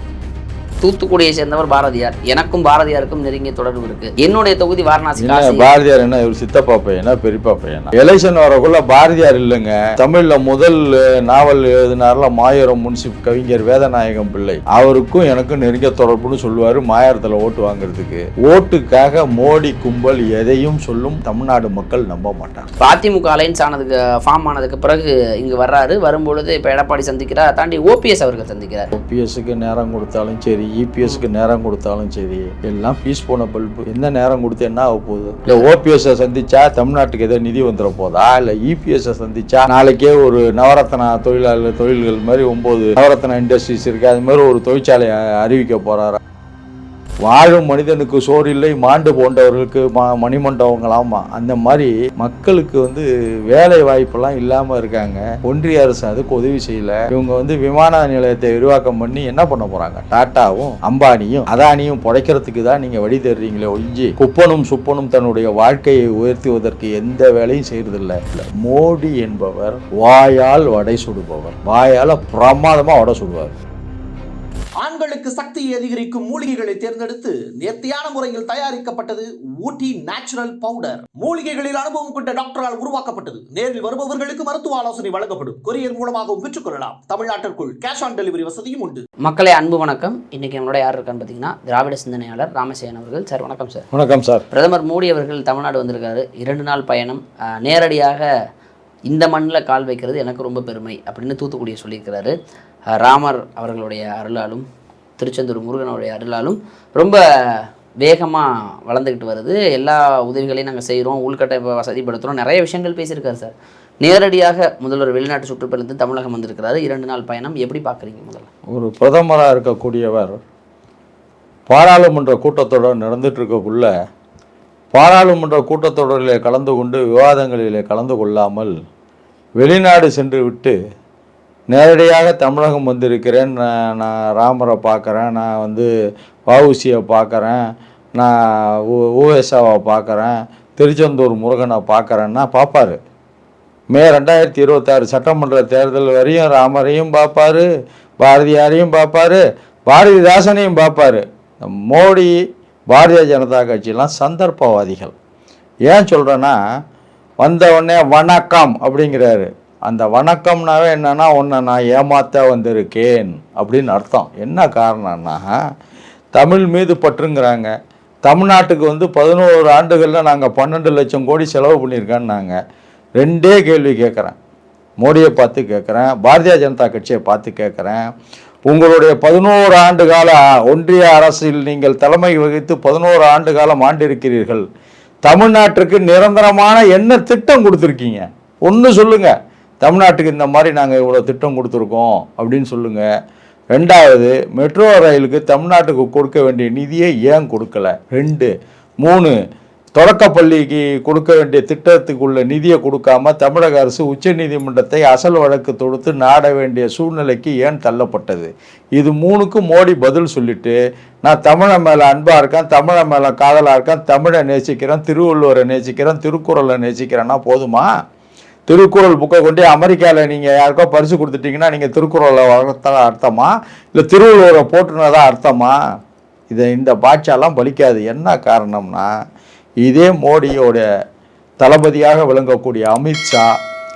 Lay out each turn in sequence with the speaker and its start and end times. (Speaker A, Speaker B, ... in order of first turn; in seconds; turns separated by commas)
Speaker A: 0.8-5.7, Speaker B: 5.2-22.7, Speaker A: 22.8-28.9, Speaker B: 28.9-46.2, Speaker B: 47.2-73.6, Speaker C: 74.8-89.0, Speaker A: 89.2-93.9, Speaker B: 93.9-94.5, Speaker A: 94.5-98.3, Speaker A: 99.1-102.3, Speaker A: 102.9-104.6, Speaker A: 105.2-118.5, Speaker B: 118.7-120.4, Speaker B: 121.7-123.9, Speaker B: 124.9-128.7, Speaker B: 129.6-130.8, Speaker B: 131.7-135.9, Speaker B: 136.5-137.6, Speaker B: 138.2-143.0, Speaker B: 143.9-147.7, Speaker B: 148.2-152.3, Speaker B: 152.9-155.1, Speaker B: 155.9-156.6, Speaker B: 157.4-165.5, Speaker B: 166.3-167.7, Speaker B: 168.2-172.6, Speaker B: 173.2-174.3, Speaker B: 175.0-178.0, Speaker B: 178.7-184.6, Speaker B: 185.2-193.1, Speaker B: 193.7-199.3, Speaker B: 200.0-217.9, Speaker B: 218.7-225.8, Speaker B: 226.5-229.1, Speaker B: 229.8-230.8, Speaker B: 231.6-233.4